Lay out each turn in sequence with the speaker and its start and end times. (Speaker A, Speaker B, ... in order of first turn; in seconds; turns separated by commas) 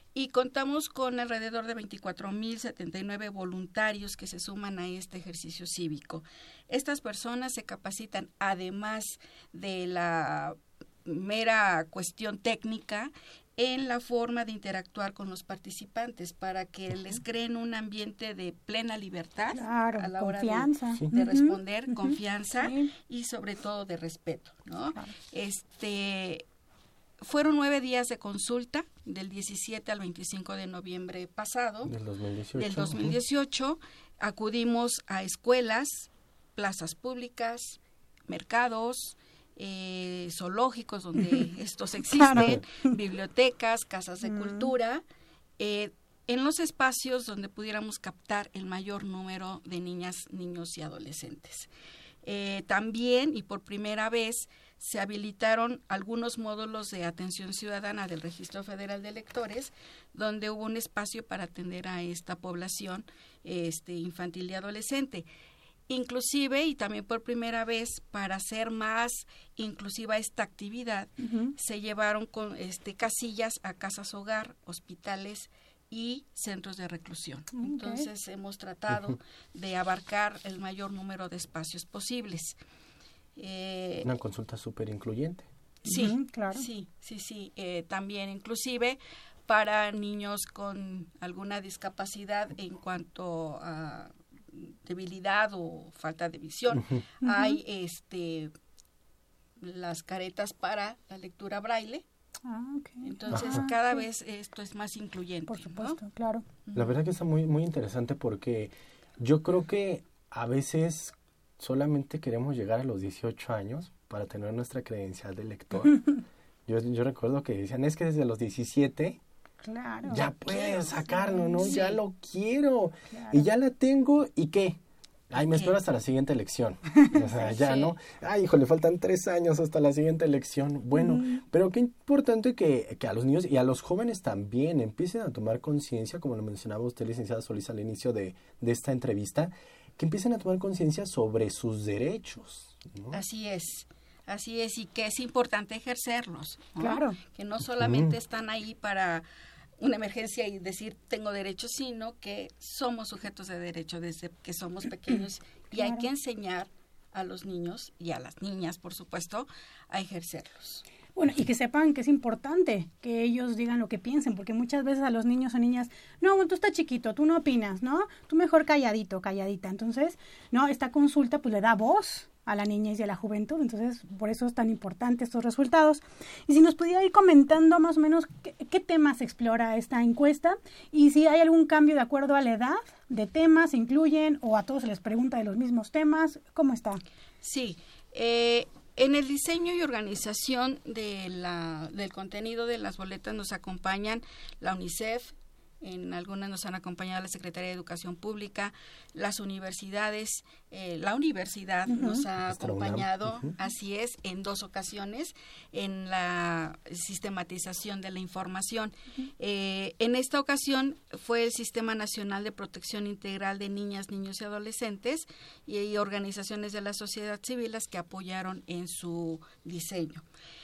Speaker A: 0.1-26.4, Speaker B: 19.5-22.9, Speaker A: 27.2-31.9, Speaker C: 31.8-33.2, Speaker A: 32.5-45.0, Speaker B: 41.2-41.5, Speaker B: 42.1-42.9, Speaker C: 42.4-42.6, Speaker B: 44.2-44.7, Speaker A: 45.6-51.7, Speaker A: 52.2-65.2, Speaker A: 65.9-82.5, Speaker B: 71.2-71.5, Speaker B: 77.5-78.0, Speaker C: 78.9-79.2, Speaker A: 83.4-84.1, Speaker C: 84.0-85.5, Speaker A: 85.8-98.5, Speaker B: 85.8-86.7, Speaker B: 97.2-97.6, Speaker A: 99.6-102.0, Speaker B: 102.4-104.0, Speaker A: 103.0-106.0, Speaker C: 103.3-103.6, Speaker B: 105.5-106.4, Speaker A: 106.7-106.9, Speaker C: 106.7-116.0, Speaker C: 116.7-119.2, Speaker B: 119.6-121.8, Speaker C: 120.0-124.8, Speaker A: 120.5-120.8, Speaker A: 121.6-122.0, Speaker B: 123.1-123.5, Speaker C: 125.3-143.2, Speaker A: 125.3-125.8, Speaker B: 127.0-127.8, Speaker B: 130.9-131.4, Speaker A: 143.1-149.2, Speaker B: 146.8-147.2, Speaker C: 147.8-148.1, Speaker A: 149.8-160.8, Speaker B: 155.8-156.1, Speaker B: 161.1-187.0, Speaker A: 187.4-220.2, Speaker B: 201.9-202.2, Speaker C: 202.4-203.5